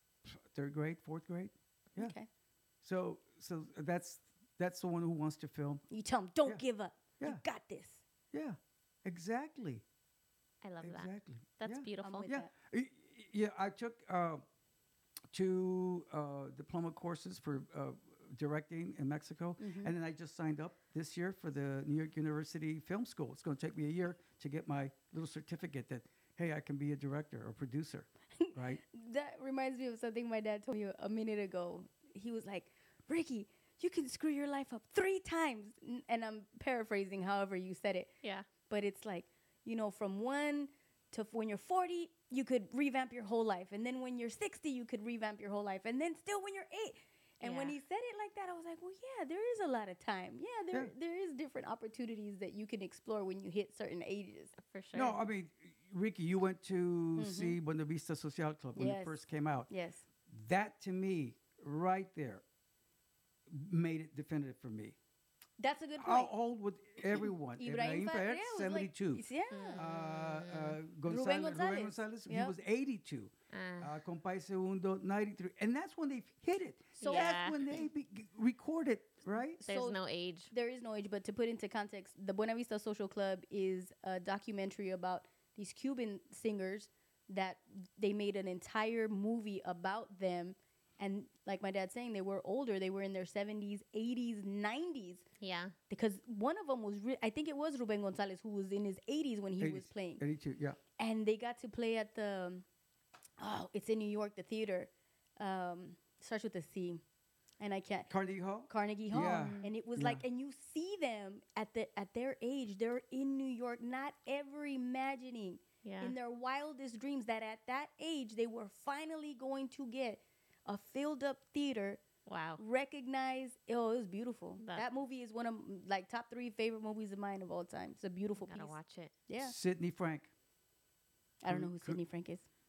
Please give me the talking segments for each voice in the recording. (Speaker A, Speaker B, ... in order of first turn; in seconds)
Speaker A: 0.2-2.1, 2.8-5.8, 8.3-9.8, 10.8-14.4, 15.3-28.8, 54.9-59.7, 60.3-62.4, 63.5-65.0, 66.0-69.2, 69.8-79.6, 99.6-100.8, 108.1-110.2, 129.4-130.3, 131.5-132.0
Speaker B: 2.0-2.3, 5.9-8.0, 12.0-12.5, 19.6-19.9, 28.4-38.1, 38.7-54.5, 57.2-57.5, 58.8-60.0, 65.6-66.3, 67.5-69.8, 71.1-72.5, 77.0-77.5, 79.6-80.0, 80.5-95.2, 95.9-100.2, 101.0-102.6, 103.4-107.0, 107.6-108.1, 108.7-122.0, 122.6-128.7, 129.3-129.5, 131.4-132.4
Speaker C: 10.6-12.2, 47.4-47.8, 54.6-55.1, 69.5-70.8, 73.5-73.9, 77.0-77.7, 79.6-80.5, 95.4-95.7, 109.3-109.7, 115.8-116.1, 122.2-122.6, 124.6-124.8, 128.5-129.1